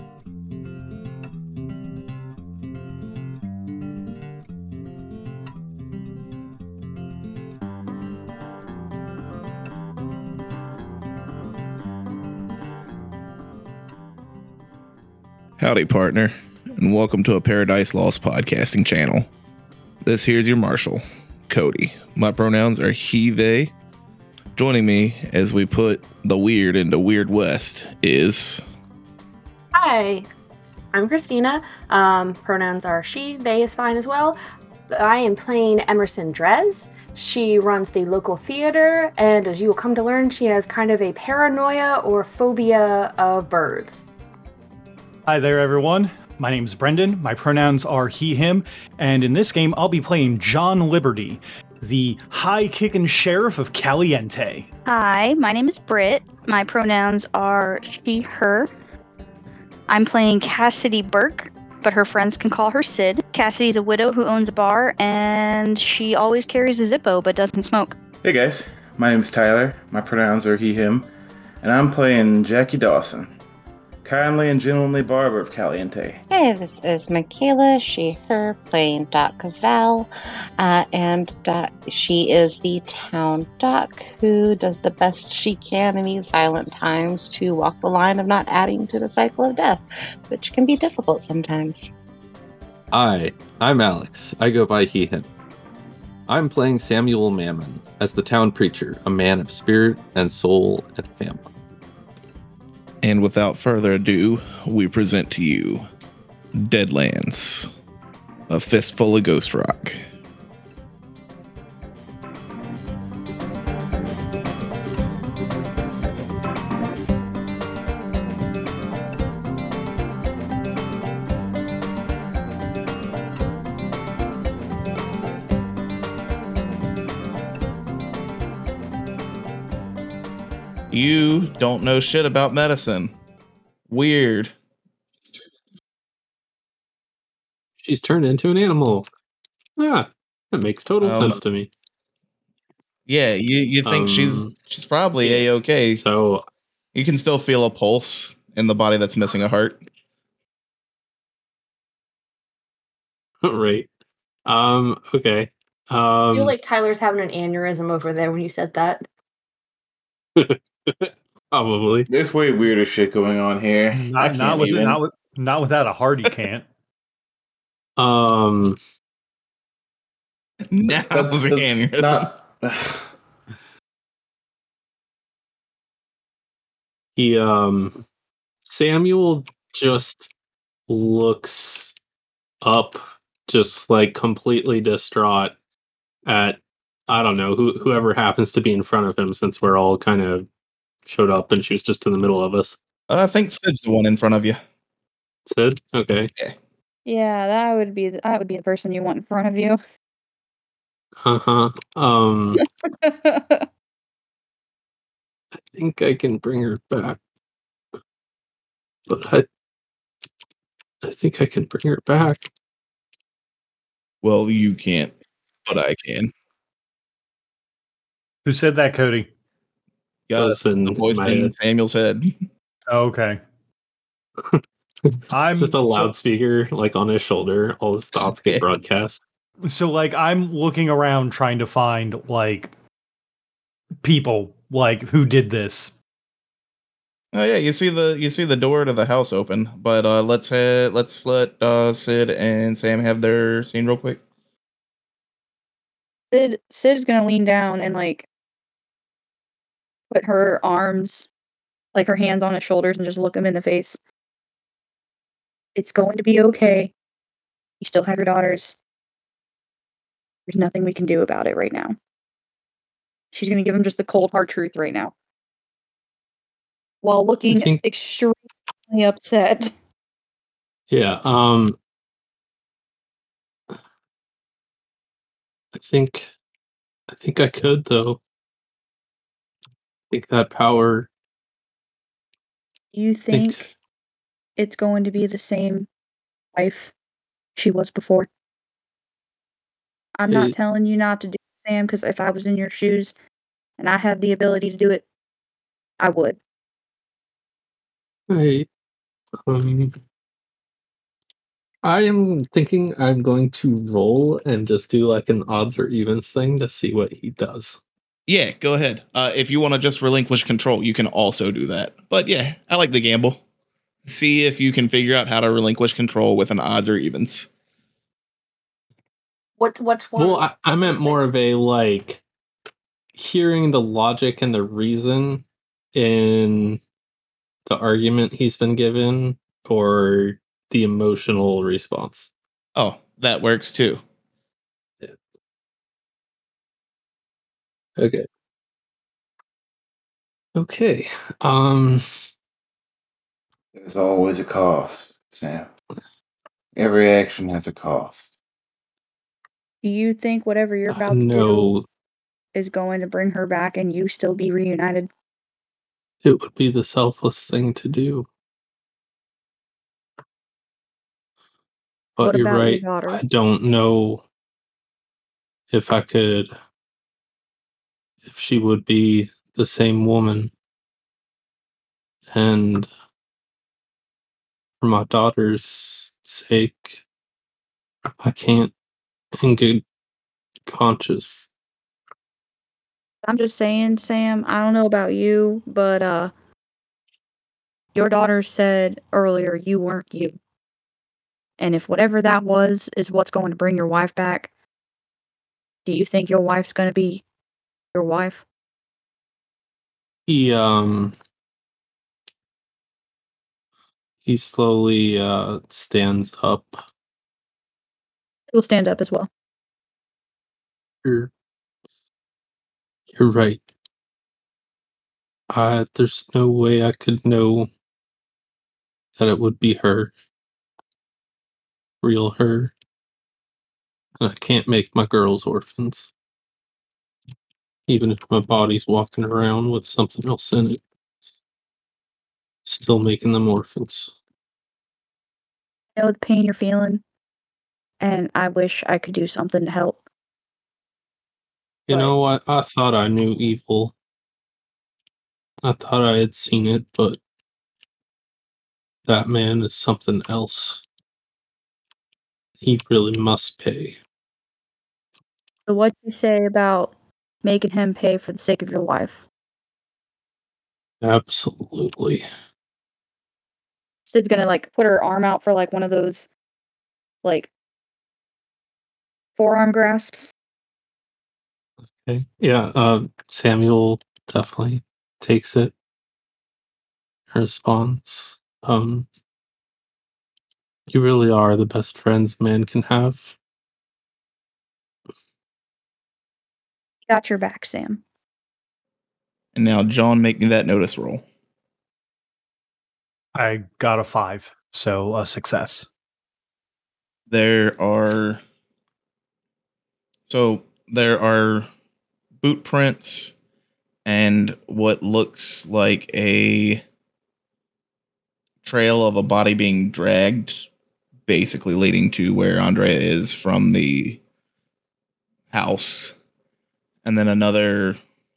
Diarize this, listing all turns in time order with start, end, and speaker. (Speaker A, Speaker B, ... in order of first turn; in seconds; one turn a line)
Speaker A: 0.7-1.1
Speaker B: 15.6-19.3
Speaker B: 20.0-23.7
Speaker B: 24.5-28.6
Speaker C: 29.7-30.3
Speaker C: 30.9-34.4
Speaker C: 34.9-44.0
Speaker D: 45.2-54.7
Speaker E: 54.9-58.7
Speaker E: 59.9-67.9
Speaker F: 68.2-71.1
Speaker F: 71.6-73.3
Speaker F: 74.0-76.2
Speaker G: 76.3-91.9
Speaker A: 92.9-95.3
Speaker A: 96.3-101.5
Speaker B: 103.0-105.8
Speaker B: 106.5-107.7
Speaker B: 108.5-110.0
Speaker B: 130.9-133.1
Speaker B: 133.9-134.5
Speaker H: 137.8-139.1
Speaker H: 139.8-141.7
Speaker B: 141.0-141.4
Speaker B: 143.1-146.0
Speaker H: 143.8-144.5
Speaker H: 145.2-146.4
Speaker B: 146.9-149.8
Speaker H: 153.4-153.9
Speaker H: 154.5-156.6
Speaker C: 156.3-159.0
Speaker H: 160.4-162.1
Speaker F: 162.1-165.0
Speaker D: 163.9-166.7
Speaker H: 168.0-168.8
Speaker B: 170.7-172.3
Speaker F: 171.1-173.1
Speaker H: 177.2-178.0
Speaker H: 178.6-180.3
Speaker H: 180.9-181.9
Speaker H: 182.6-185.5
Speaker H: 186.2-190.5
Speaker H: 191.1-192.8
Speaker B: 193.1-194.6
Speaker H: 195.5-196.3
Speaker E: 197.1-199.8
Speaker H: 201.2-202.6
Speaker E: 203.0-203.7
Speaker H: 205.6-207.2
Speaker H: 209.1-209.4
Speaker H: 211.0-212.5
Speaker B: 214.2-215.1
Speaker B: 215.7-216.3
Speaker D: 218.4-219.3
Speaker B: 220.3-222.3
Speaker H: 220.3-221.5
Speaker D: 222.9-223.4
Speaker H: 224.4-229.2
Speaker D: 225.3-226.1
Speaker B: 228.1-228.6
Speaker D: 229.7-232.7
Speaker D: 234.0-235.9
Speaker B: 237.3-244.2
Speaker E: 246.3-248.3
Speaker E: 250.1-251.3
Speaker E: 251.9-254.0
Speaker E: 255.8-256.9
Speaker E: 257.8-258.8
Speaker E: 260.5-261.9
Speaker E: 263.3-265.1
Speaker E: 267.0-269.7
Speaker H: 267.5-267.8
Speaker H: 270.9-271.8
Speaker H: 275.7-276.3
Speaker H: 277.1-278.2
Speaker H: 280.1-281.1
Speaker E: 282.9-283.7
Speaker H: 283.3-283.7
Speaker E: 284.6-285.9
Speaker E: 286.5-286.9
Speaker E: 287.6-288.3
Speaker E: 290.2-293.1
Speaker H: 290.3-290.5
Speaker E: 293.8-295.0
Speaker E: 296.0-296.4
Speaker H: 298.3-298.7
Speaker H: 299.4-299.9
Speaker H: 301.8-307.8
Speaker B: 308.3-313.4
Speaker B: 314.0-317.5
Speaker C: 319.6-321.2
Speaker H: 320.2-322.2
Speaker H: 323.1-326.8
Speaker H: 327.6-332.3
Speaker B: 332.8-334.0
Speaker H: 338.0-338.3
Speaker H: 340.6-342.0
Speaker F: 343.7-345.7
Speaker F: 346.8-348.4
Speaker E: 349.8-351.7
Speaker H: 350.9-351.9
Speaker E: 352.5-355.1
Speaker H: 356.2-358.2
Speaker H: 362.1-364.2
Speaker E: 362.2-363.2
Speaker H: 365.7-366.5
Speaker H: 368.2-370.5
Speaker H: 372.3-372.9
Speaker H: 374.8-377.0
Speaker H: 378.2-378.7
Speaker H: 379.4-379.8
Speaker H: 380.6-381.5
Speaker E: 383.2-386.3
Speaker E: 387.9-390.4
Speaker E: 391.6-394.5
Speaker E: 395.9-397.2
Speaker E: 397.9-398.4
Speaker H: 400.3-401.1
Speaker H: 404.2-406.8
Speaker E: 408.5-409.3
Speaker H: 411.0-411.3
Speaker H: 413.1-413.6
Speaker H: 415.5-417.7
Speaker H: 419.2-420.1
Speaker H: 422.0-422.7
Speaker H: 424.2-426.1
Speaker H: 427.9-431.3
Speaker H: 432.6-434.1
Speaker E: 436.0-437.0
Speaker E: 438.0-440.0
Speaker H: 441.9-443.9
Speaker E: 441.9-442.1
Speaker H: 445.6-447.2
Speaker H: 449.1-450.8
Speaker H: 452.6-453.9
Speaker E: 455.7-456.9
Speaker E: 457.4-459.2
Speaker H: 461.0-462.2
Speaker E: 464.1-466.3
Speaker E: 467.2-467.5
Speaker E: 469.4-470.3
Speaker H: 472.0-475.7
Speaker H: 477.3-479.1
Speaker H: 480.9-483.4
Speaker E: 487.1-488.0
Speaker B: 489.5-491.2
Speaker D: 493.4-495.9
Speaker B: 497.3-498.4
Speaker B: 500.3-501.7
Speaker B: 502.4-503.3
Speaker B: 504.0-506.8
Speaker B: 508.6-510.7
Speaker B: 511.3-514.2
Speaker B: 515.5-516.1
Speaker B: 517.0-518.0